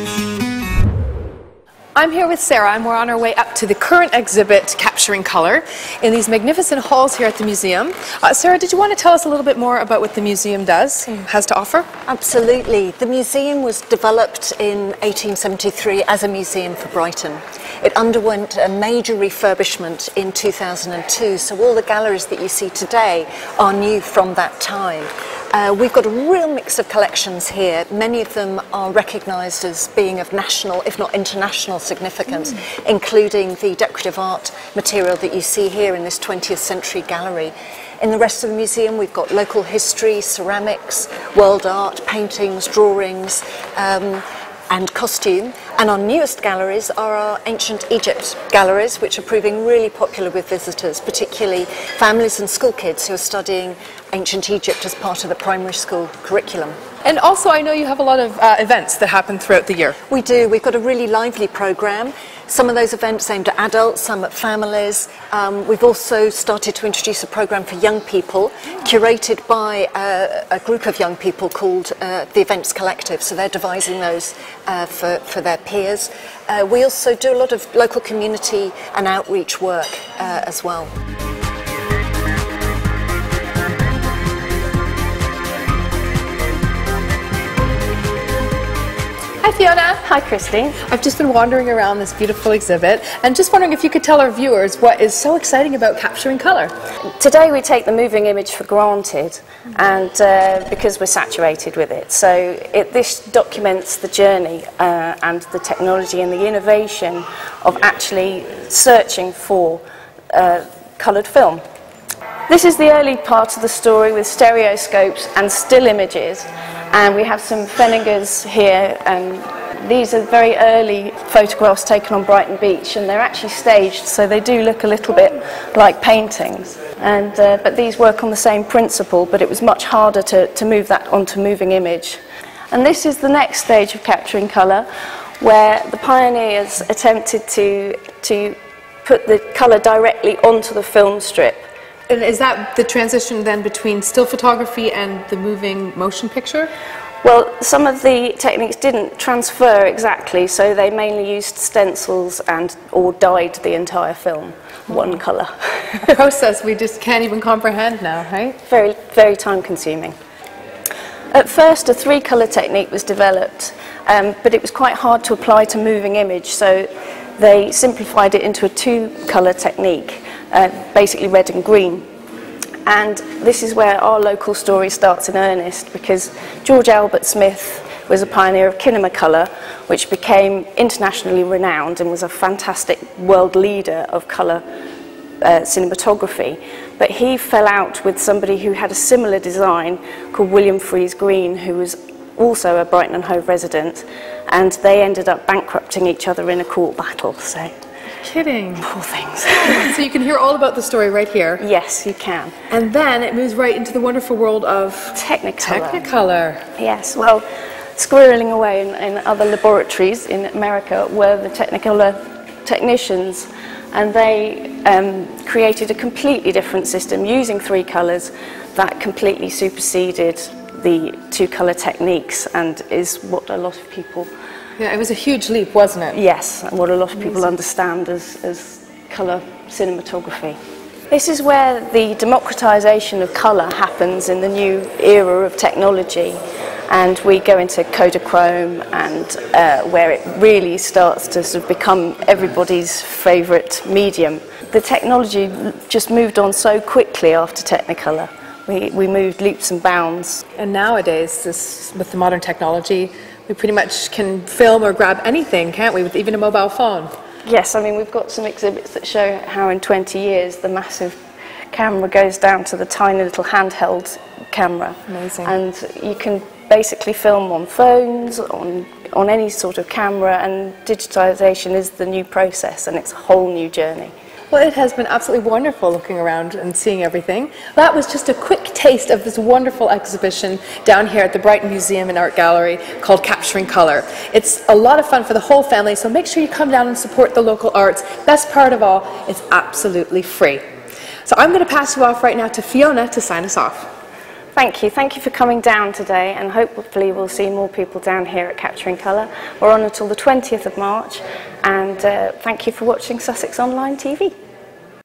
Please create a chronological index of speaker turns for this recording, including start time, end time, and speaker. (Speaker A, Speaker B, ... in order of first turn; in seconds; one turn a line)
Speaker A: 1.9-11.9
Speaker B: 12.1-56.8
Speaker A: 57.0-60.0
Speaker B: 60.1-80.9
Speaker A: 89.5-90.0
Speaker C: 89.8-90.8
Speaker A: 90.9-96.7
Speaker C: 97.2-111.6
Speaker C: 112.5-132.2
Speaker C: 132.7-134.9
Speaker C: 135.4-141.7
Speaker A: 142.1-146.7
Speaker C: 147.2-156.1
Speaker A: 156.0-158.6
Speaker C: 158.6-160.2
Speaker C: 161.3-172.1
Speaker C: 172.9-184.6
Speaker C: 185.4-197.7
Speaker A: 198.2-198.9
Speaker C: 198.8-199.9
Speaker A: 199.5-201.6
Speaker C: 201.6-202.6
Speaker A: 202.7-206.6
Speaker C: 205.2-206.1
Speaker C: 206.8-207.4
Speaker C: 208.0-224.3
Speaker A: 224.8-226.2
Speaker C: 226.1-230.6
Speaker C: 231.1-250.4
Speaker A: 250.6-257.1
Speaker C: 257.4-261.2
Speaker C: 261.7-274.1
Speaker A: 265.1-265.5
Speaker A: 274.5-290.6
Speaker A: 291.3-293.9
Speaker C: 294.6-304.4